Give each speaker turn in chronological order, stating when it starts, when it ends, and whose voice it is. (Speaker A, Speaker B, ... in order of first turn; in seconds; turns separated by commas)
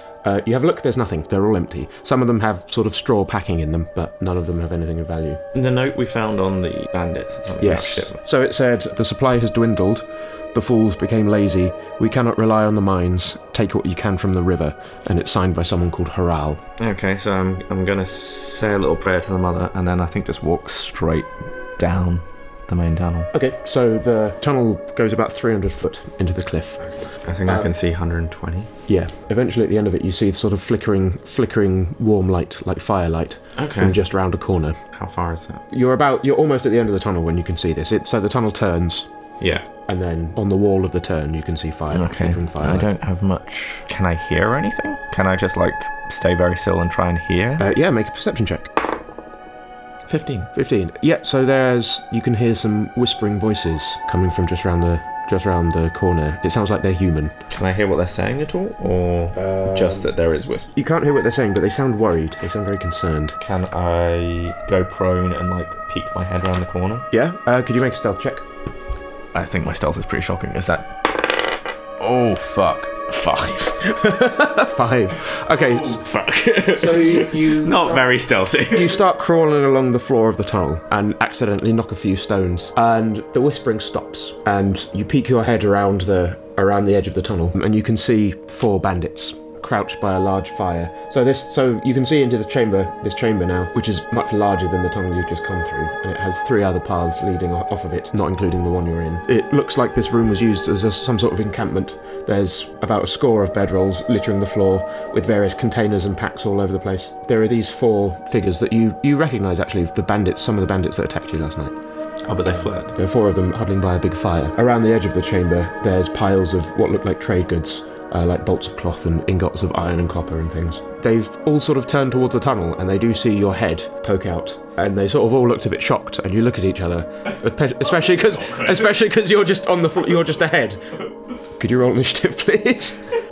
Speaker A: 0.2-5.4, Speaker B: 5.5-8.1, Speaker A: 7.6-16.6, Speaker B: 16.8-23.3, Speaker A: 23.3-26.9, Speaker B: 27.2-28.7, Speaker A: 27.4-27.7, Speaker A: 28.9-34.8, Speaker B: 33.5-34.0, Speaker B: 34.9-35.6, Speaker A: 35.7-39.1, Speaker B: 39.4-39.6, Speaker A: 39.9-42.9, Speaker B: 41.9-47.6, Speaker A: 47.6-48.7, Speaker B: 50.1-50.5, Speaker A: 50.5-57.3, Speaker B: 57.5-60.7, Speaker A: 59.3-60.1, Speaker A: 60.7-63.4, Speaker B: 63.4-67.0, Speaker A: 67.1-68.4, Speaker B: 69.3-74.0, Speaker A: 73.9-76.0, Speaker B: 75.6-79.0, Speaker A: 76.7-78.1, Speaker A: 78.7-111.7, Speaker B: 112.2-112.9, Speaker A: 112.9-131.0, Speaker B: 128.0-128.9, Speaker A: 131.6-133.0